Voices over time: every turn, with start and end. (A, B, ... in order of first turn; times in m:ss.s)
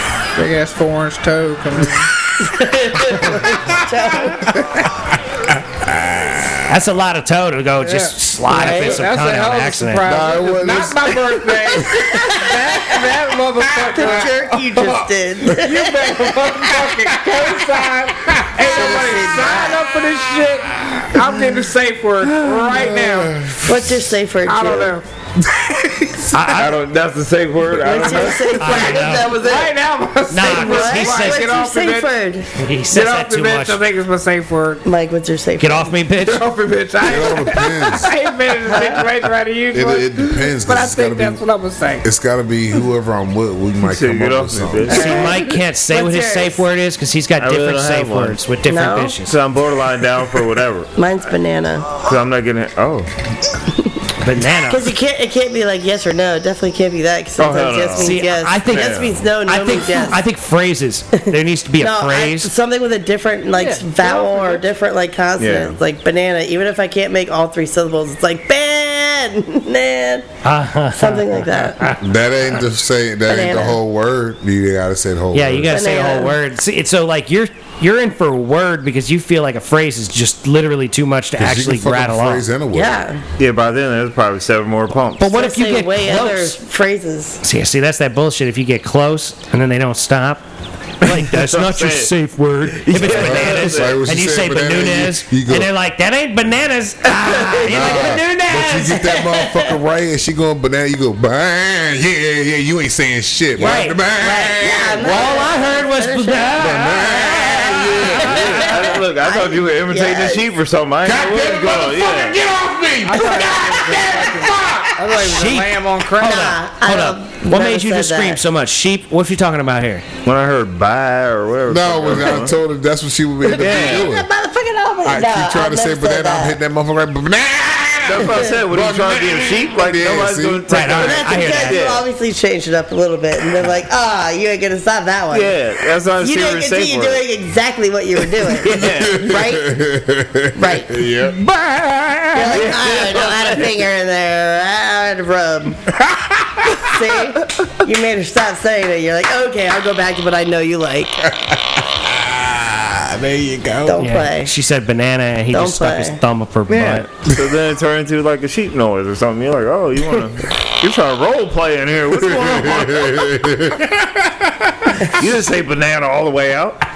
0:00.3-0:02.1 A
0:02.4-0:04.6 B
0:03.1-0:03.4 C
0:04.3-0:06.7 C
0:06.6-0:10.1 D
0:07.8-0:23.5 A
0:08.5-0:09.0 B
0:10.0-0:12.2 C
0:11.9-0:13.1 B
0:13.7-0:14.2 C
0:13.9-0:16.2 B
0:15.5-0:18.5 C
0:18.6-0:19.9 B
0:22.2-0:24.0 C
0:23.6-0:25.0 B
0:24.4-0:25.0 A
0:25.4-0:26.5 C
0:26.3-0:26.8 D
0:26.5-0:29.3 E
0:27.8-0:29.8 B
0:28.6-0:29.4 D
0:29.3-0:32.1 A
0:30.3-0:31.5 D
0:30.4-0:32.5 B
0:32.6-0:33.8 D
0:32.9-0:34.8 A
0:34.8-0:36.0 B
0:35.6-0:36.5 D
0:36.3-0:36.7 E
0:36.3-0:42.1 A
0:37.0-0:38.1 C
0:38.7-0:39.0 B
0:39.7-0:41.4 C
0:42.0-0:45.0 C
0:43.8-0:45.3 E
0:44.9-0:49.3 D
0:44.9-0:46.6 A
0:47.4-0:48.4 E
0:48.6-0:49.2 B
0:49.2-0:50.9 E
0:51.0-0:51.9 B
0:51.9-0:53.1 E
0:54.2-0:54.9 D
0:54.6-1:00.2 B
0:57.4-0:59.2 E
0:58.0-1:02.5 D
1:01.3-1:10.3 B
1:03.6-1:04.6 A
1:05.4-1:05.8 E
1:10.4-1:12.0 D
1:10.9-1:11.8 B
1:12.0-1:15.8 C
1:13.3-1:13.8 B
1:15.3-1:22.4 D
1:15.7-1:16.4 B
1:21.4-1:23.0 C
1:22.7-1:23.2 B
1:23.4-1:25.2 E
1:25.2-1:26.6 D
1:25.2-1:27.4 B
1:27.4-1:30.4 D
1:31.0-1:39.2 D
1:31.1-1:32.1 E
1:32.7-1:34.0 E
1:33.0-1:35.7 C
1:37.5-1:38.2 B
1:37.6-1:45.4 C
1:39.0-1:39.8 B
1:43.6-1:48.4 D
1:44.6-1:50.5 B
1:46.6-1:49.0 C
1:48.1-1:52.4 E
1:51.0-1:55.2 C
1:53.0-1:56.5 A
1:55.2-2:00.0 D
1:56.2-1:58.4 B
2:00.2-2:02.5 E
2:01.7-2:04.3 C
2:03.4-2:06.6 B
2:03.6-2:04.1 E
2:05.0-2:10.7 C
2:08.0-2:12.0 E
2:08.2-2:08.5 B
2:10.7-2:11.8 D
2:11.0-2:15.6 B
2:15.3-2:17.2 E
2:16.1-2:19.6 B
2:18.4-2:19.3 E
2:18.8-2:21.4 C
2:20.6-2:21.1 B
2:21.4-2:22.3 A
2:22.3-2:25.8 B
2:22.4-2:23.7 E
2:26.3-2:26.7 C
2:26.8-2:31.3 B
2:31.3-2:34.1 C
2:33.8-2:34.5 B
2:34.0-2:37.1 D
2:35.5-2:36.2 B
2:36.7-2:43.4 E
2:42.2-2:45.0 C
2:44.9-2:46.8 E